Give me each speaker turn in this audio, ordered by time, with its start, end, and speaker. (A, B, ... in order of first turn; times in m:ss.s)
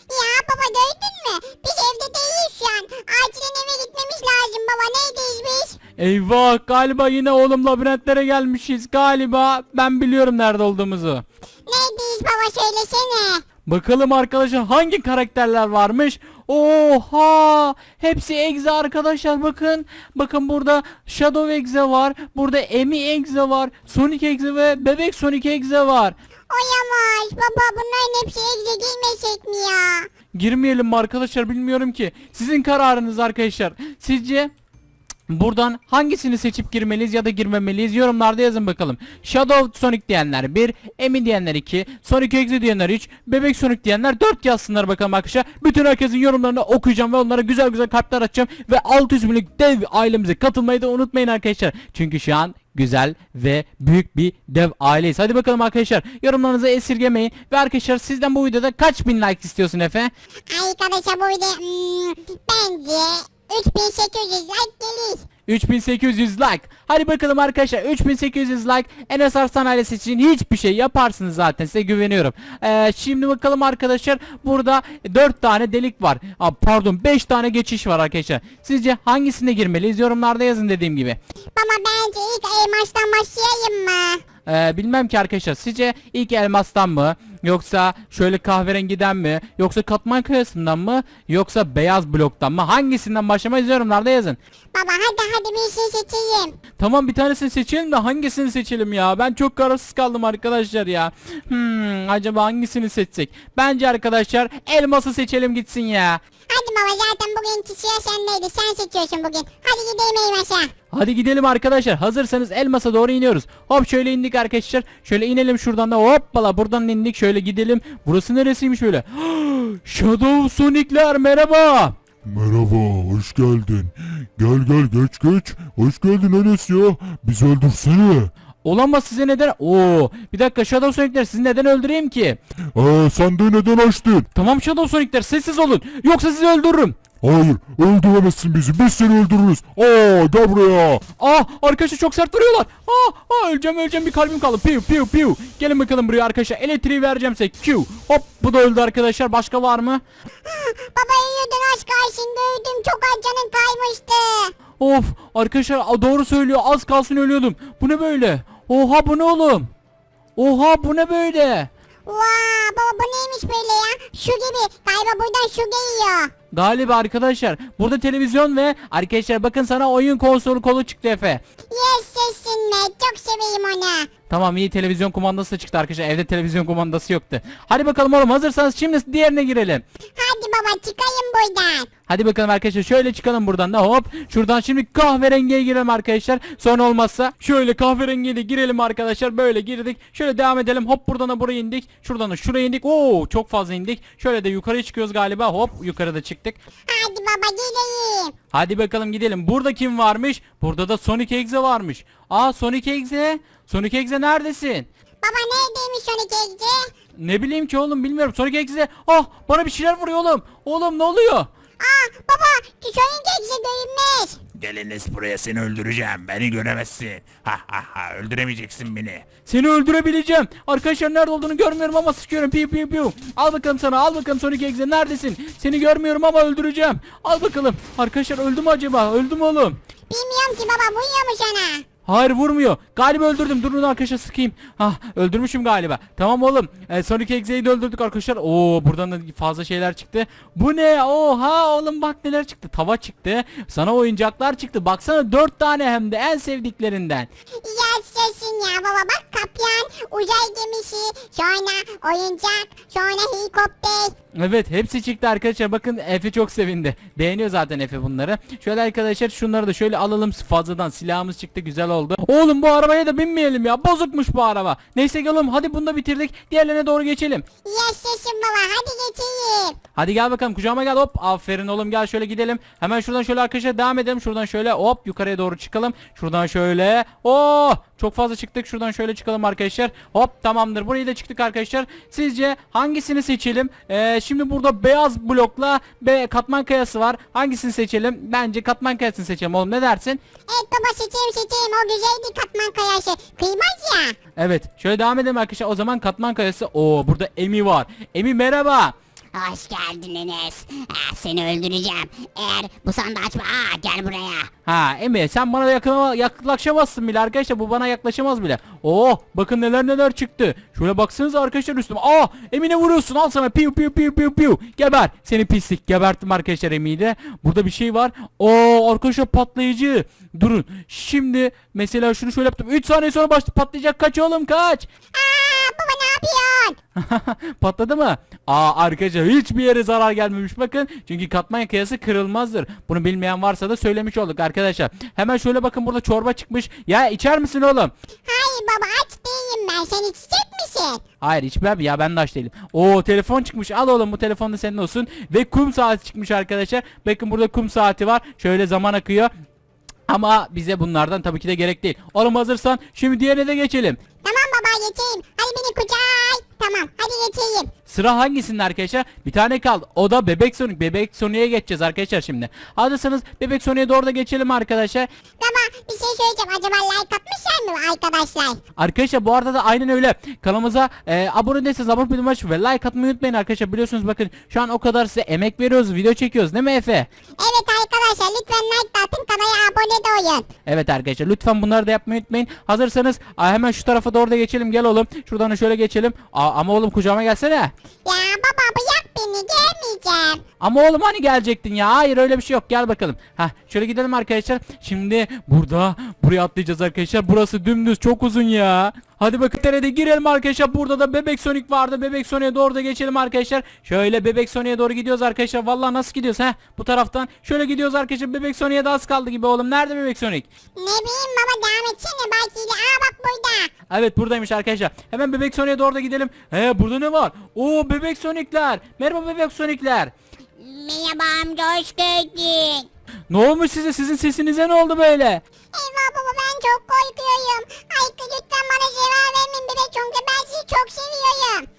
0:00.1-0:05.8 A
0:06.0-0:11.2 B
0:11.7-0:13.4 A
0:13.7-0:26.2 B
0:26.5-0:30.1 A
0:30.4-0:34.5 B
0:35.3-1:00.1 B
1:00.5-1:05.2 A
1:05.5-1:21.2 B
1:21.6-1:24.2 A
1:24.5-1:34.4 B
1:34.7-1:36.6 A
1:36.8-1:46.2 B
1:46.5-1:50.7 A
1:50.9-2:02.0 B
2:02.3-2:08.3 C
2:08.6-2:12.4 B
2:12.8-2:14.3 C
2:14.3-2:17.0 B
2:17.2-2:21.0 C
2:21.1-2:30.0 B
2:30.5-2:34.5 A
2:34.8-2:39.7 B
2:40.4-2:41.7 B
2:42.1-2:46.3 A
2:46.5-2:51.4 B
2:51.7-2:54.1 A
2:54.3-2:59.8 B
3:00.2-3:01.9 A
3:02.1-3:16.6 B
3:16.9-3:18.3 A
3:18.5-3:24.9 B
3:25.2-3:26.9 A
3:27.2-3:31.5 B
3:31.8-3:34.4 A
3:34.6-3:39.3 D
3:39.5-3:49.8 B
3:50.1-3:51.8 A
3:52.1-4:07.3 B
4:07.6-4:14.1 A
4:14.4-4:27.4 B
4:27.6-4:29.8 A
4:30.0-4:50.2 B
4:50.5-4:54.2 A
4:54.4-4:59.0 B
4:59.4-5:04.5 E
5:04.7-5:24.9 B
5:25.1-5:26.8 A
5:27.0-5:37.9 B
5:38.3-5:41.0 A
5:41.2-5:49.3 B
5:50.1-5:54.0 B
5:54.2-5:57.7 A
5:57.9-6:05.1 B
6:05.4-6:08.6 A
6:08.8-6:17.1 B
6:17.4-6:20.5 A
6:20.7-6:27.7 B
6:28.1-6:30.4 A
6:30.6-6:50.5 B
6:50.8-6:53.7 A
6:53.9-7:00.1 B
7:00.6-7:02.9 E
7:03.3-7:05.4 B
7:05.7-7:11.7 A